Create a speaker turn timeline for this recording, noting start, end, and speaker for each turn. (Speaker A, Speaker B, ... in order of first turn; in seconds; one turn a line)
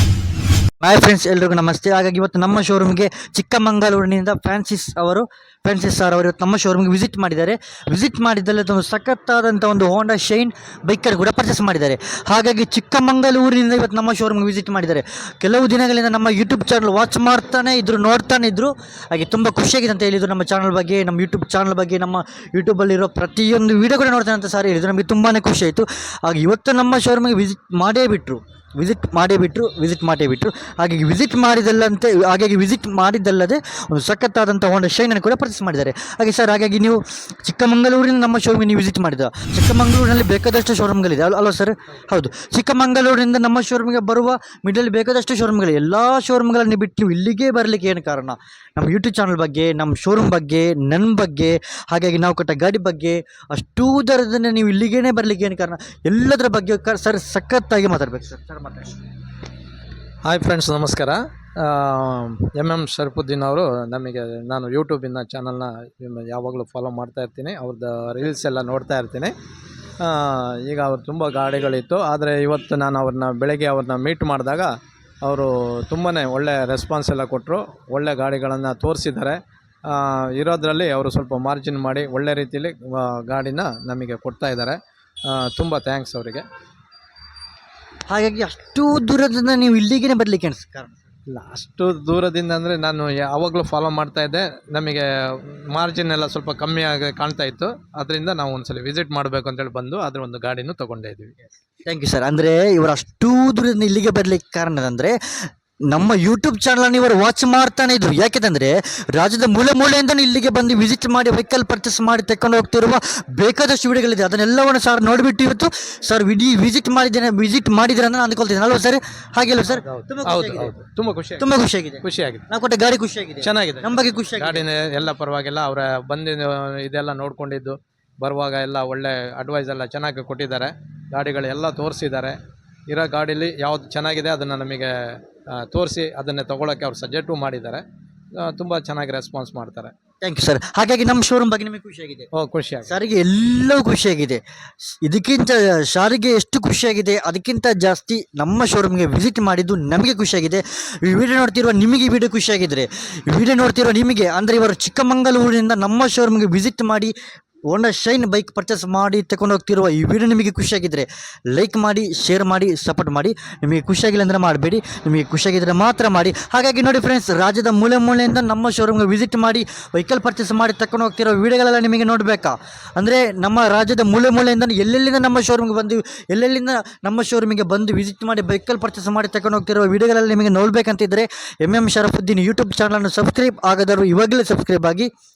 Speaker A: 0.8-59.0
Speaker B: 60.3-69.3
Speaker B: 70.0-86.5
Speaker A: 88.1-91.0
Speaker B: 91.3-101.3
Speaker A: 101.9-105.2
Speaker A: 105.9-120.8
Speaker B: 119.7-121.5
Speaker A: 121.4-124.6
Speaker B: 122.0-122.5
Speaker B: 123.4-132.4
Speaker B: 132.9-137.8
Speaker B: 138.4-139.9
Speaker A: 140.2-142.3
Speaker B: 142.3-142.9
Speaker A: 142.9-144.4
Speaker A: 145.0-157.1
Speaker A: 157.7-185.1